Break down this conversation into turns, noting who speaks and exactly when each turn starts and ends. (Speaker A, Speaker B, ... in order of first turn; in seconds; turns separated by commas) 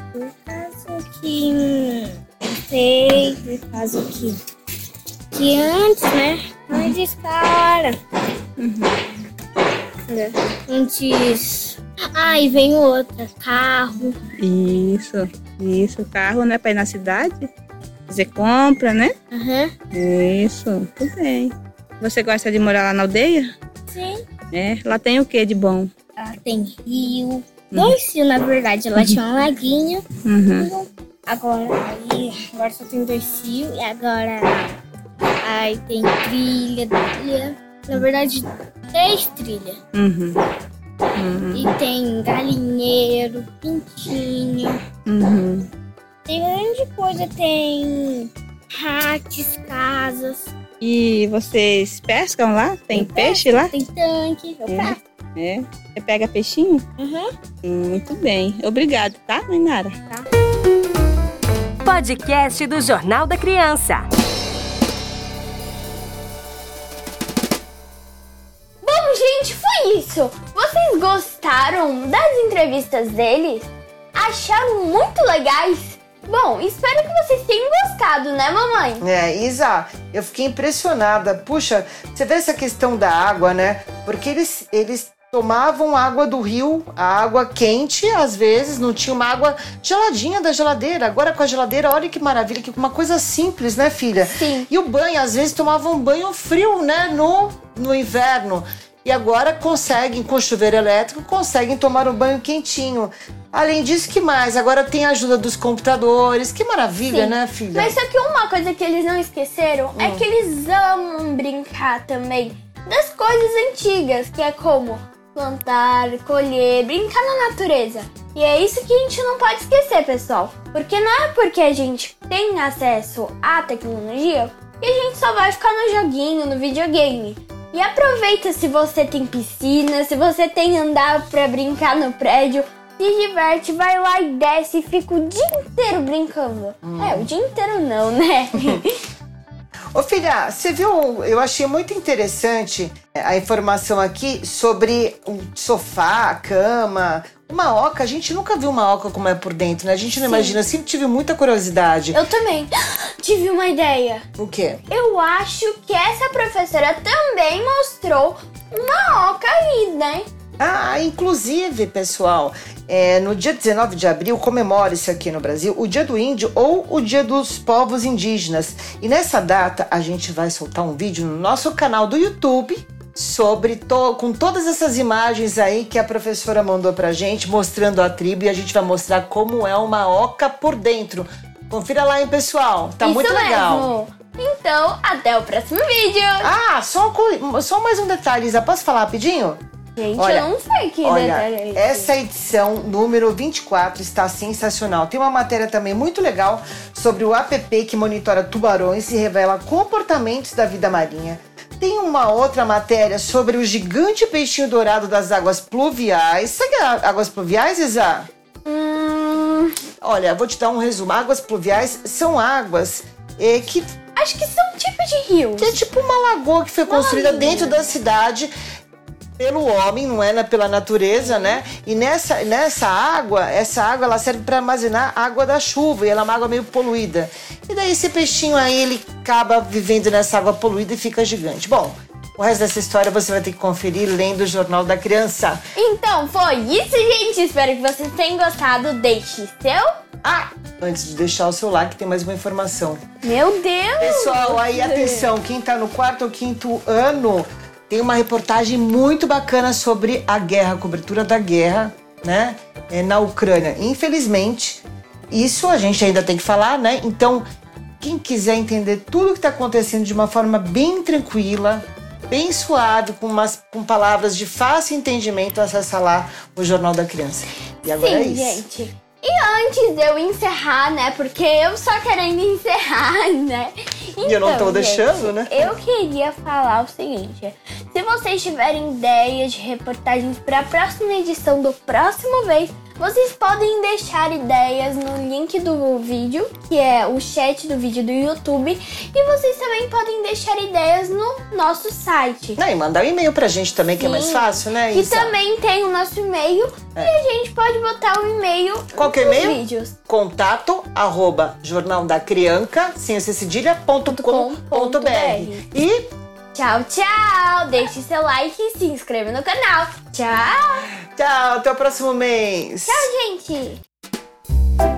Speaker A: 0.1-4.4, Speaker A: 5.3-7.9, Speaker B: 8.6-8.9, Speaker A: 10.1-14.2, Speaker B: 14.4-17.5, Speaker B: 18.1-19.1, Speaker A: 19.3-19.7, Speaker B: 19.9-23.5, Speaker A: 23.9-24.2, Speaker B: 24.5-25.9, Speaker A: 26.2-30.1, Speaker B: 27.7-28.0, Speaker B: 30.2-30.7, Speaker A: 30.6-34.8, Speaker A: 35.4-39.8, Speaker B: 39.9-40.4, Speaker B: 41.1-41.8, Speaker A: 41.5-44.8, Speaker B: 45.1-45.7, Speaker A: 46.3-50.5, Speaker B: 50.8-53.7, Speaker A: 52.9-55.0, Speaker B: 54.7-56.8, Speaker A: 57.0-57.3, Speaker B: 57.6-60.0, Speaker C: 61.9-64.1, Speaker D: 68.8-79.0, Speaker E: 79.0-108.0, Speaker D: 94.2-94.7, Speaker D: 107.1-138.9, Speaker E: 110.0-110.3, Speaker E: 136.8-137.3, Speaker E: 138.6-138.8, Speaker E: 139.9-152.2, Speaker D: 150.2-150.6, Speaker D: 152.1-154.2, Speaker E: 154.4-154.8, Speaker D: 154.9-160.3, Speaker E: 160.6-183.9, Speaker D: 183.0-186.5, Speaker E: 186.4-189.6, Speaker D: 190.0-192.1, Speaker E: 190.2-190.5, Speaker E: 191.0-208.3, Speaker D: 208.7-209.7, Speaker E: 210.0-213.9, Speaker D: 214.2-215.8, Speaker E: 215.6-218.5, Speaker D: 216.9-217.9, Speaker E: 219.4-235.6, Speaker D: 221.2-221.6, Speaker D: 235.8-239.9, Speaker E: 240.2-243.0, Speaker D: 243.2-245.3, Speaker E: 244.0-257.4, Speaker E: 258.0-268.6, Speaker D: 267.9-292.6, Speaker E: 274.2-275.7, Speaker E: 292.6-295.4, Speaker D: 294.0-299.9, Speaker E: 298.9-306.0, Speaker D: 304.1-305.6, Speaker D: 306.5-310.9, Speaker E: 311.1-313.1, Speaker D: 312.9-313.8